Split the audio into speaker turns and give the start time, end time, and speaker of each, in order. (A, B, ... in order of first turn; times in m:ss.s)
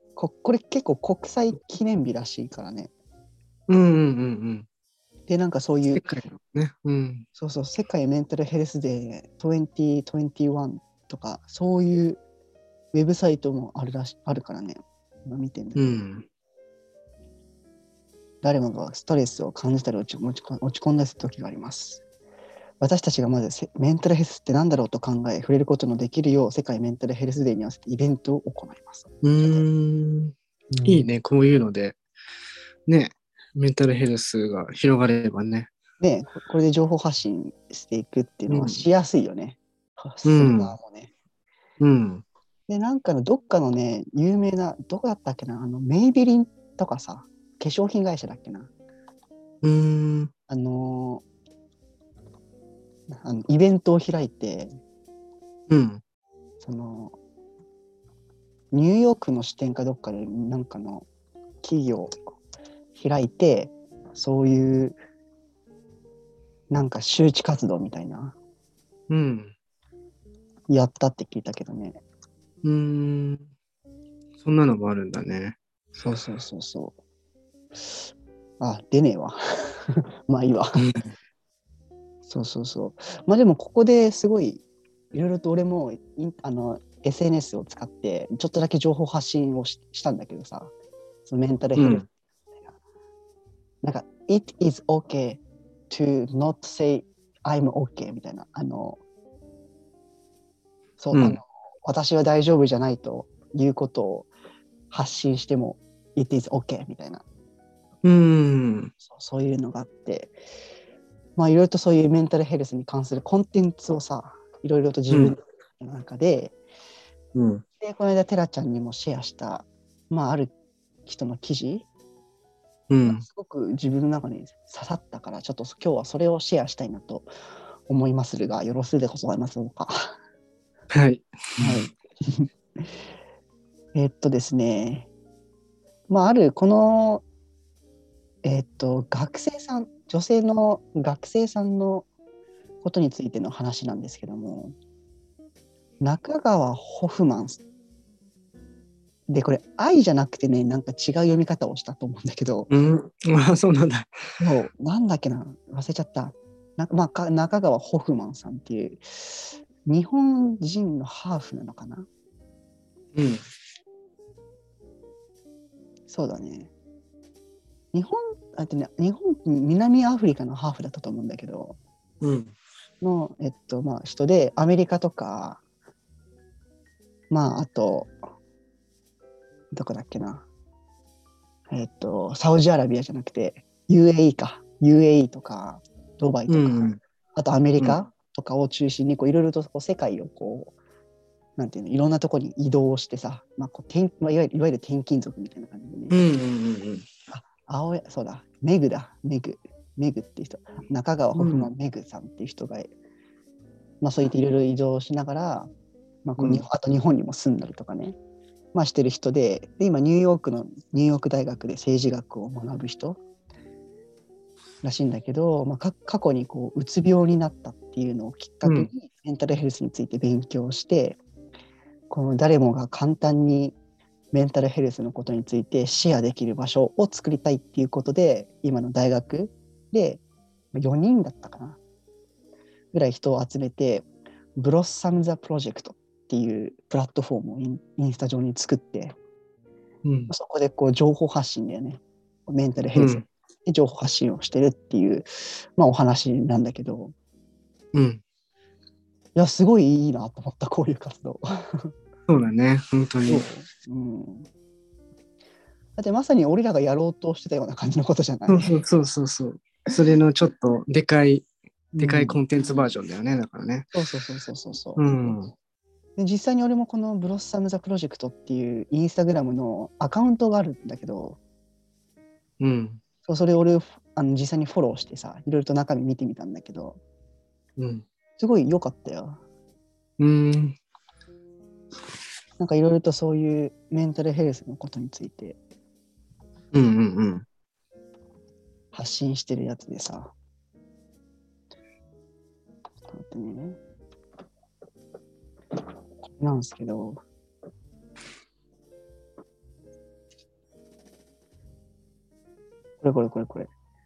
0:00.2-0:02.9 A
0:03.7-0:04.7 B
0:05.3-0:06.1 A
0:05.9-0:07.2 B
0:07.4-0:12.2 A
0:12.9-0:16.0 A
0:15.8-0:16.3 B
0:18.4-0:22.0 A
0:22.8-0:29.6 A
0:29.2-0:32.0 B
0:30.7-0:31.1 A
0:32.9-0:35.7 B
0:36.0-0:41.1 A
0:38.5-0:38.8 B
0:40.2-0:40.8 B
0:41.8-0:42.2 B
0:42.7-0:48.7 A
0:49.6-0:50.3 B
0:50.5-0:51.2 A
0:53.1-0:54.7 A
0:55.7-0:56.0 B
0:56.6-0:57.2 A
0:58.7-1:01.1 A
1:01.6-1:02.2 A
1:03.0-1:05.0 A
1:06.7-1:08.4 A
1:09.1-1:09.5 B
1:10.7-1:12.0 A
1:12.6-1:13.5 B
1:14.4-1:15.6 B
1:16.0-1:17.0 A
1:18.6-1:20.8 A
1:20.8-1:21.1 B
1:22.3-1:24.6 A
1:25.1-1:30.7 A
1:31.3-1:32.1 A
1:31.8-1:32.0 B
1:33.8-1:39.0 A
1:41.0-1:44.3 A
1:41.1-1:41.4 B
1:44.9-1:47.2 A
1:48.0-1:48.9 B
1:49.0-1:50.4 A
1:51.4-1:56.6 A
1:55.1-1:55.4 B
1:57.4-1:57.6 B
1:57.8-2:00.5 A
2:01.1-2:01.9 A
2:02.9-2:03.2 B
2:03.0-2:07.3 A
2:07.9-2:10.1 A
2:10.9-2:11.9 B
2:11.6-2:12.9 A
2:13.9-2:15.1 A
2:16.1-2:17.2 A
2:18.4-2:22.1 A
2:22.8-2:24.8 A
2:26.0-2:27.6 A
2:29.3-2:32.7 A
2:32.7-2:34.2 B
2:34.4-2:42.1 A
2:43.1-2:43.4 B
2:46.1-2:46.7 A
2:47.9-2:51.8 A
2:52.2-2:52.5 B
2:53.0-2:55.6 A
2:57.3-2:58.2 A
2:59.7-3:00.5 A
3:01.7-3:10.8 A
3:06.5-3:07.0 B
3:11.6-3:16.2 A
3:16.1-3:17.1 B
3:17.3-3:22.9 A
3:21.4-3:21.7 B
3:24.0-3:25.7 A
3:26.2-3:28.2 A
3:26.4-3:26.6 B
3:28.7-3:33.2 A
3:34.8-3:41.2 A
3:38.6-3:38.9 B
3:42.1-3:43.8 A
3:44.3-3:50.2 A
3:50.7-3:51.8 A
3:52.9-3:59.2 A
4:00.0-4:00.3 B
4:00.3-4:07.1 A
4:03.0-4:03.3 B
4:07.9-4:08.2 B
4:09.4-4:11.9 A
4:12.3-4:13.4 B
4:13.3-4:14.5 A
4:16.0-4:18.8 A
4:18.5-4:21.5 B
4:21.9-4:22.4 A
4:22.0-4:23.9 B
4:23.9-4:25.4 A
4:25.0-4:25.5 B
4:26.2-4:31.4 A
4:32.6-4:33.0 B
4:33.3-4:37.0 A
4:37.8-4:38.1 B
4:38.4-4:39.4 A
4:40.2-4:40.8 B
4:42.6-4:45.6 A
4:46.7-4:47.5 B
4:48.9-4:50.3 A
4:53.1-4:53.8 A
4:56.2-4:57.2 A
5:03.0-5:03.7 A